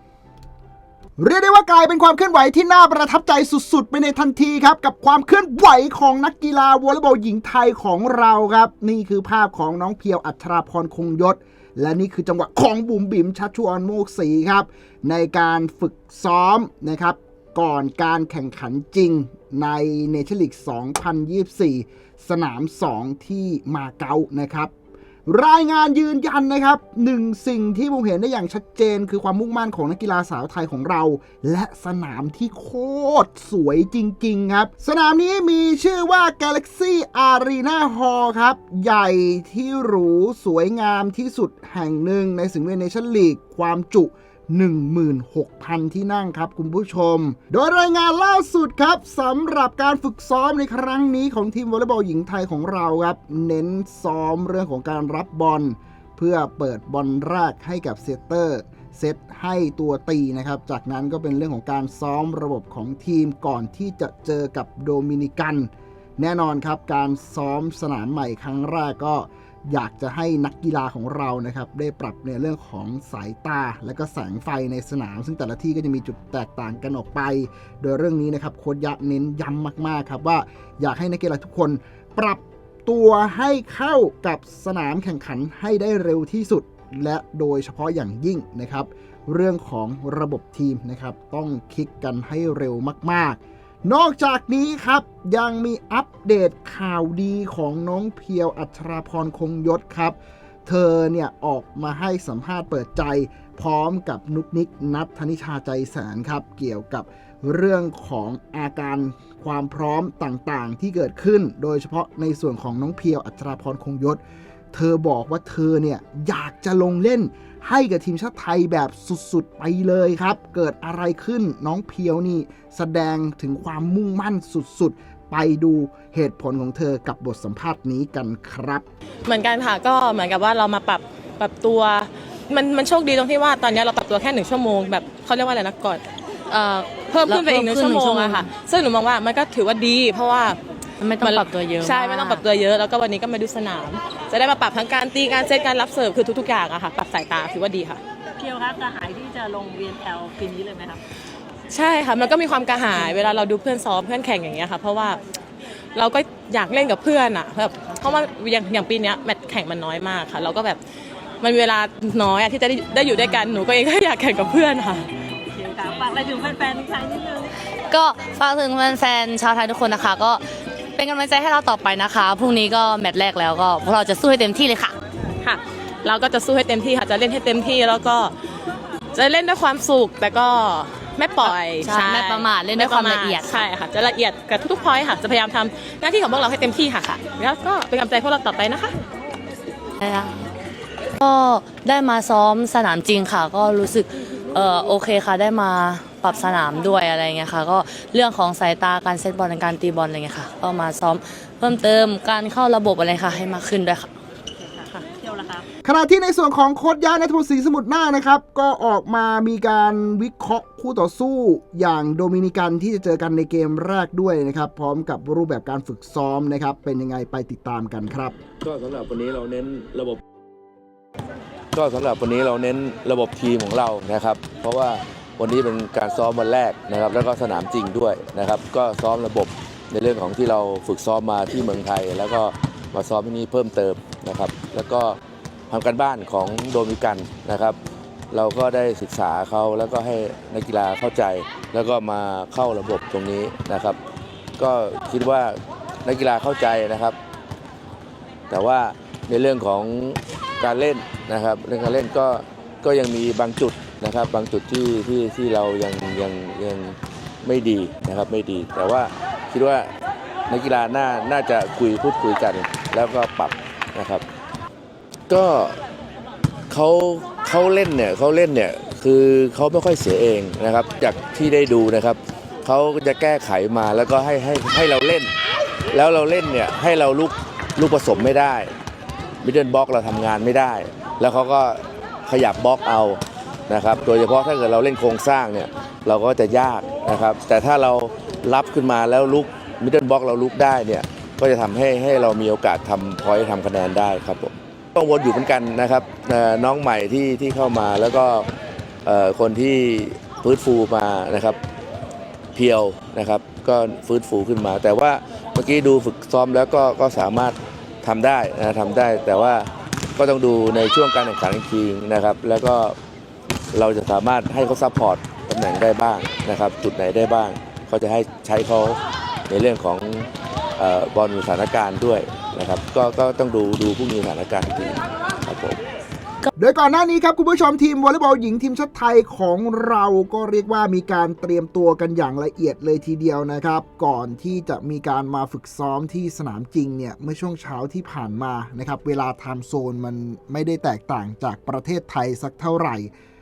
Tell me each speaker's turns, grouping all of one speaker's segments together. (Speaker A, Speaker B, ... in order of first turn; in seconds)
Speaker A: 1.2-24.7, 25.2-114.2, 114.7-128.8, 205.8-218.4, 326.6-343.1
Speaker B: 129.2-136.0, 137.1-140.6, 141.2-148.0, 151.7-155.2, 155.9-160.8, 161.4-165.1, 175.4-178.3, 179.1-188.9
Speaker C: 136.5-138.5, 141.0-142.4, 167.9-170.4, 170.9-174.9, 181.4-183.7, 190.0-190.4, 191.2-204.1
Speaker D: 148.4-151.0, 165.3-167.5, 204.8-205.7
Speaker E: 218.6-220.2, 221.7-235.2, 235.7-237.8, 238.3-244.0, 244.6-247.2, 248.5-259.9, 260.5-264.2, 265.3-265.8, 266.7-275.3, 275.9-278.7, 279.4-298.5, 299.0-301.6, 302.5-312.9, 313.7-325.8